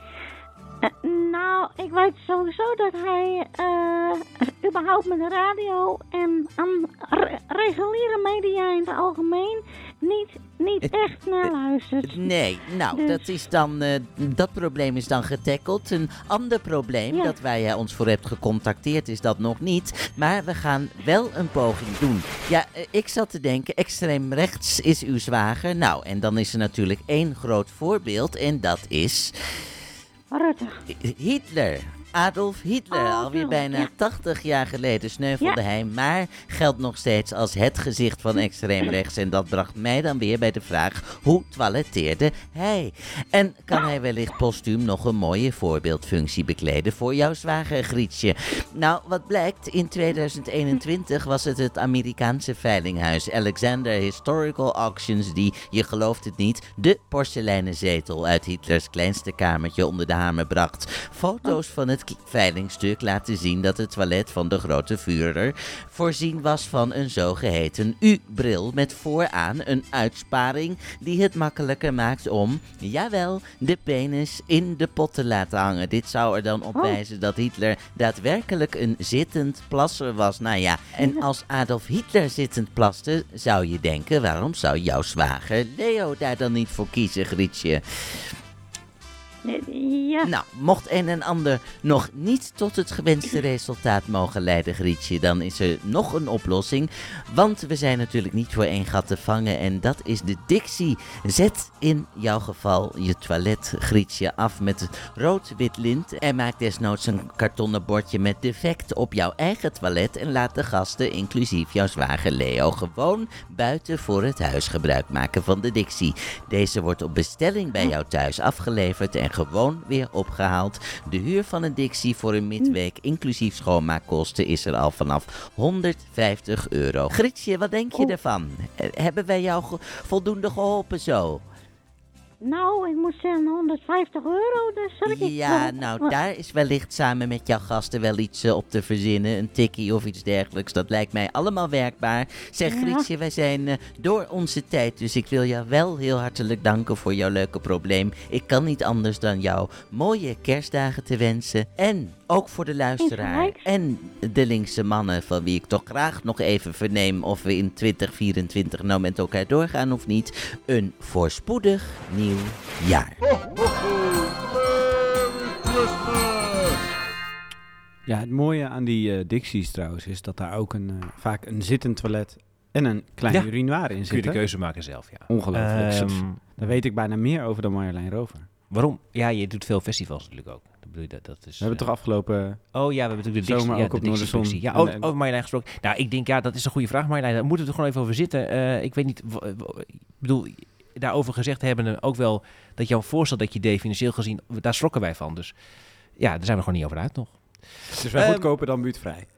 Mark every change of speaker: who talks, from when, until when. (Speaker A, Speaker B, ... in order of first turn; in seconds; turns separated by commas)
Speaker A: 0.8-13.4, Speaker B: 10.8-11.5, Speaker B: 12.0-29.3, Speaker A: 17.1-17.4, Speaker A: 30.3-30.8, Speaker B: 30.9-88.2, Speaker A: 32.9-33.9, Speaker A: 38.4-38.9, Speaker A: 76.7-77.0, Speaker A: 81.0-81.2, Speaker A: 89.4-90.3, Speaker B: 90.2-131.4, Speaker A: 132.4-136.2, Speaker B: 135.1-163.2, Speaker A: 142.7-143.1, Speaker A: 153.0-153.7, Speaker C: 168.1-178.5, Speaker D: 173.3-176.8, Speaker D: 178.7-181.9, Speaker C: 181.6-182.7, Speaker D: 182.7-195.5, Speaker C: 183.4-185.1, Speaker D: 196.2-198.5, Speaker C: 197.9-199.3